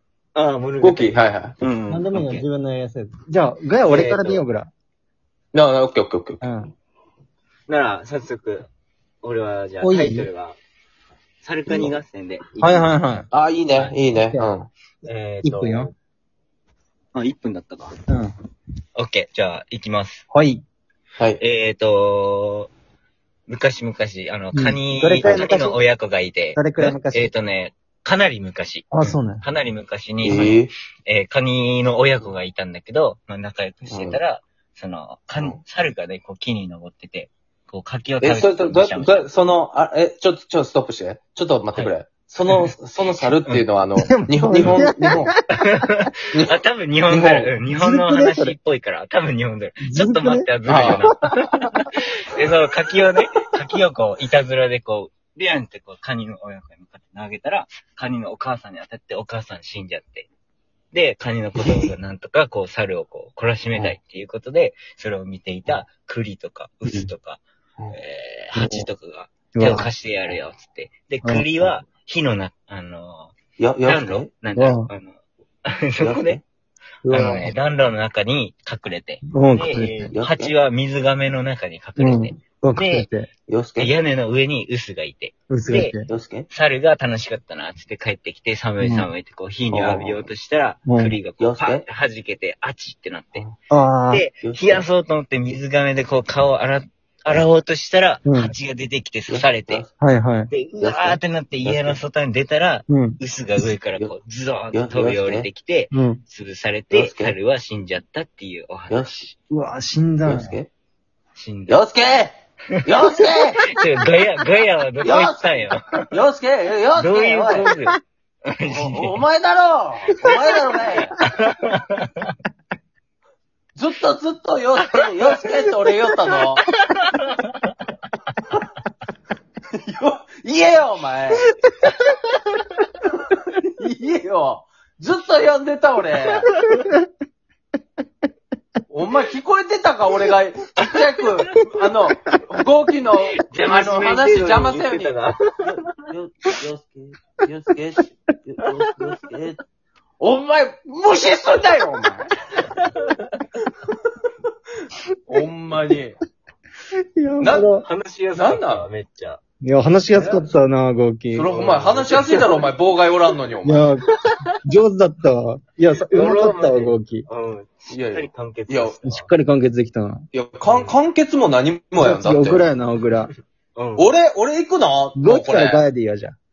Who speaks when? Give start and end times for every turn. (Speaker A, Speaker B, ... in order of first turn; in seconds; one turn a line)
Speaker A: 0.3-2.4
Speaker B: 0.8-1.6
Speaker C: 1.9-4.7
Speaker A: 3.9-4.4
Speaker B: 5.5-6.4
Speaker C: 6.4-6.7
Speaker A: 7.7-8.7
Speaker A: 9.2-10.6
Speaker C: 9.8-10.3
Speaker A: 11.4-12.9
Speaker C: 12.6-13.3
Speaker B: 13.3-14.7
Speaker C: 14.1-14.5
Speaker A: 15.0-15.9
Speaker C: 15.4-15.9
Speaker A: 17.1-18.0
Speaker A: 18.9-20.2
Speaker C: 20.3-20.6
Speaker A: 21.4-22.7
Speaker A: 23.5-39.3
Speaker C: 24.5-25.8
Speaker C: 26.5-27.3
Speaker C: 28.9-29.4
Speaker B: 30.2-30.7
Speaker B: 33.8-34.2
Speaker B: 38.2-45.3
Speaker A: 42.5-43.6
Speaker C: 44.0-45.4
Speaker A: 45.5-51.6
Speaker B: 47.1-47.5
Speaker C: 47.8-48.5
Speaker C: 49.8-51.9
Speaker B: 50.6-51.1
Speaker A: 52.3-60.3
Speaker A: 60.9-76.4
Speaker C: 68.5-68.9
Speaker C: 69.5-69.9
Speaker B: 73.6-74.3
Speaker C: 74.5-74.9
Speaker B: 76.0-76.4
Speaker C: 77.0-77.5
Speaker A: 77.1-83.1
Speaker C: 79.3-80.1
Speaker B: 80.1-80.5
Speaker C: 82.0-83.3
Speaker B: 83.5-83.9
Speaker A: 83.8-93.5
Speaker C: 85.5-86.1
Speaker B: 86.1-86.5
Speaker C: 88.8-89.1
Speaker B: 89.7-90.3
Speaker C: 90.9-91.2
Speaker B: 91.4-91.8
Speaker C: 93.7-94.2
Speaker A: 94.1-99.8
Speaker B: 94.4-94.8
Speaker C: 98.2-98.5
Speaker B: 99.3-99.9
Speaker C: 100.0-100.5
Speaker A: 100.5-109.3
Speaker B: 100.8-102.0
Speaker C: 102.9-103.2
Speaker B: 104.7-105.5
Speaker C: 105.9-106.2
Speaker B: 106.9-107.3
Speaker B: 108.9-109.1
Speaker C: 109.5-110.6
Speaker B: 110.2-110.7
Speaker A: 111.3-111.8
Speaker B: 111.7-112.3
Speaker B: 112.8-113.6
Speaker A: 113.7-115.8
Speaker B: 115.0-117.7
Speaker A: 117.0-119.2
Speaker C: 117.5-117.9
Speaker B: 118.7-121.2
Speaker A: 121.4-122.3
Speaker B: 123.8-126.6
Speaker A: 126.8-127.4
Speaker B: 129.8-131.5
Speaker C: 131.8-132.1
Speaker B: 133.8-136.5
Speaker C: 136.7-137.0
Speaker B: 138.9-149.6
Speaker A: 140.8-141.7
Speaker A: 143.2-145.4
Speaker A: 148.7-149.0
Speaker B: 150.2-152.3
Speaker A: 152.8-153.2
Speaker B: 155.3-156.2
Speaker C: 157.1-157.9
Speaker B: 157.4-157.7
Speaker A: 157.8-159.4
Speaker B: 158.3-158.9
Speaker C: 159.6-161.6
Speaker A: 160.1-160.5
Speaker B: 161.3-163.8
Speaker A: 161.5-162.8
Speaker C: 163.6-164.1
Speaker C: 164.6-167.2
Speaker A: 166.1-169.3
Speaker B: 167.9-168.9
Speaker C: 169.0-170.2
Speaker B: 170.3-172.6
Speaker A: 170.6-170.9
Speaker C: 172.0-173.3
Speaker A: 173.8-174.1
Speaker B: 174.0-175.8
Speaker C: 175.2-176.3